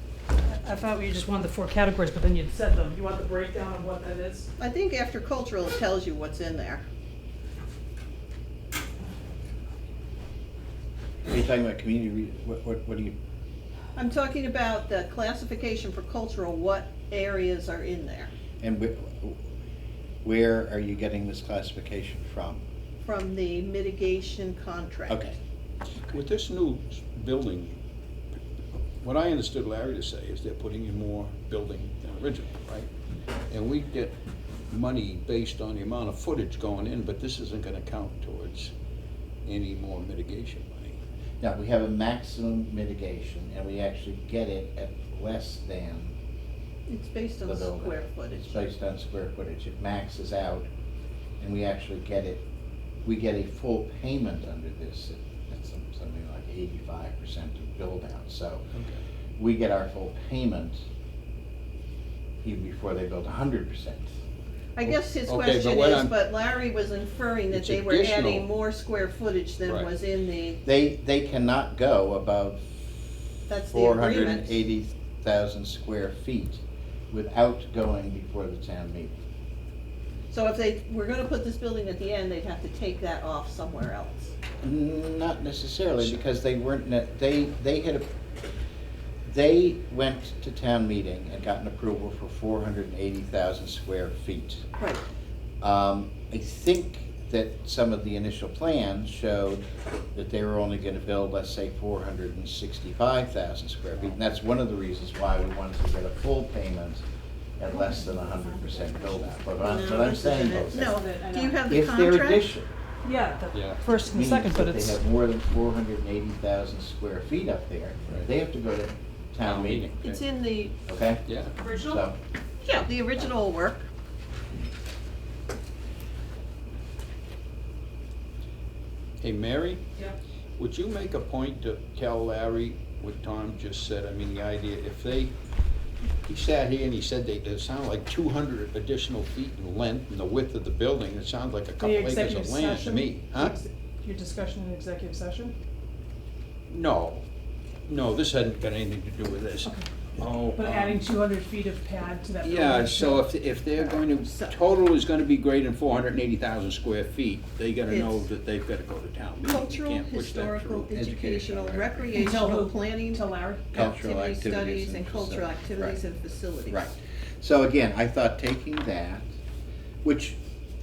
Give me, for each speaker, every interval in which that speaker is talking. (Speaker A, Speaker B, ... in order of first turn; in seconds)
Speaker A: 0.5-4.5, 107.7-109.5, 110.2-111.6, 113.0-115.0, 121.5-122.0, 141.8-145.5, 149.6-149.9, 150.5-153.3, 162.1-163.8
Speaker B: 4.6-6.8, 13.9-18.3, 23.0-25.2, 46.9-48.7, 64.8-70.6, 73.5-74.6, 80.3-84.3, 109.6-112.5, 120.0-120.7, 122.6-123.9, 153.8-154.5, 157.9-158.2, 159.4-163.2, 163.7-166.9
Speaker C: 11.3-13.2, 18.6-19.4, 20.2-22.6, 25.1-25.4, 41.4-46.1, 47.4-50.7, 51.4-52.4, 53.0-58.6, 59.4-60.8, 62.4-64.1, 70.6-73.0, 73.7-79.1, 84.6-88.1, 89.2-94.7, 95.6-107.0, 107.6-111.0, 111.7-112.7, 114.1-120.0, 120.9-122.2, 163.7-166.0, 166.7-169.3, 170.0-170.4
Speaker D: 26.1-27.8, 28.9-32.9, 33.5-34.1, 34.7-38.7, 39.4-41.0, 58.7-59.0, 64.8-66.1, 67.5-68.5, 113.5-113.8, 119.4-120.2, 121.2-121.5, 129.2-129.9, 130.6-135.3, 136.2-143.6, 146.7-147.2, 147.8-151.0, 152.4-162.0